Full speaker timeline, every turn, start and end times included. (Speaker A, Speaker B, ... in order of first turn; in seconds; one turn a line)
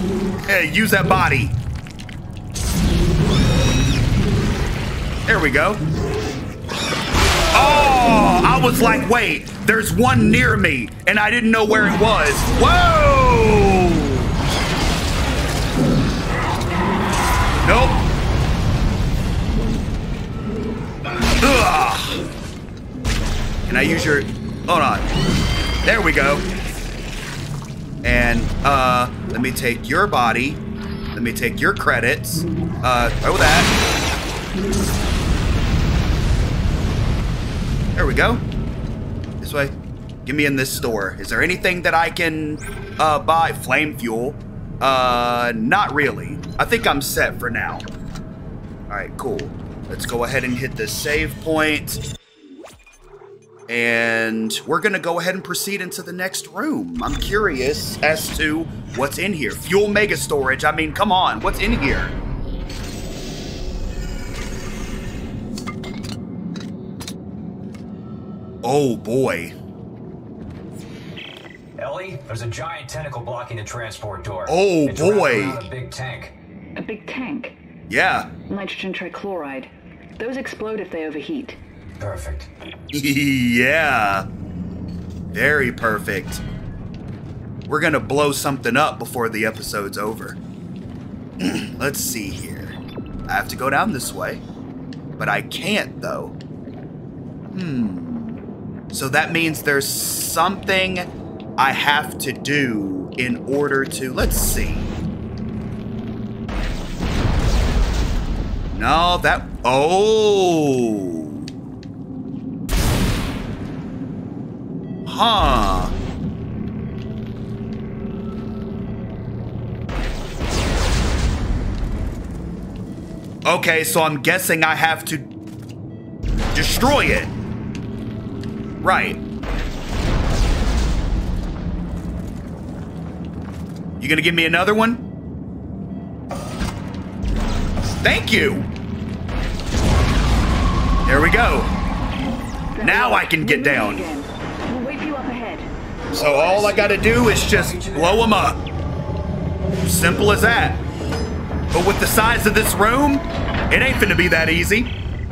Speaker A: 0.5-1.6
Speaker A: 5.3-5.8
Speaker A: 7.5-14.3
Speaker A: 17.6-18.0
Speaker A: 21.4-22.2
Speaker A: 23.7-25.1
Speaker A: 25.8-26.4
Speaker A: 28.0-30.6
Speaker A: 31.1-33.7
Speaker A: 38.0-38.4
Speaker A: 39.4-39.7
Speaker A: 40.2-47.9
Speaker A: 48.9-52.0
Speaker A: 53.7-62.1
Speaker A: 68.6-69.5
Speaker B: 71.8-76.3
Speaker A: 74.5-75.7
Speaker C: 76.8-77.5
Speaker A: 77.9-78.3
Speaker C: 78.5-81.6
Speaker B: 82.0-82.5
Speaker A: 82.9-84.2
Speaker A: 85.3-86.4
Speaker A: 87.7-90.4
Speaker A: 91.4-92.7
Speaker A: 93.3-94.4
Speaker A: 95.2-96.3
Speaker A: 97.5-98.4
Speaker A: 98.9-101.1
Speaker A: 101.6-104.9
Speaker A: 108.7-111.4
Speaker A: 115.0-115.9
Speaker A: 123.4-125.3
Speaker A: 126.5-127.3
Speaker A: 128.8-129.2
Speaker A: 134.0-135.0
Speaker A: 138.0-138.7
Speaker A: 141.1-141.7
Speaker C: 142.7-145.7
Speaker A: 142.8-144.1
Speaker B: 146.1-148.3
Speaker A: 146.1-148.6
Speaker A: 149.8-150.8
Speaker A: 151.7-154.9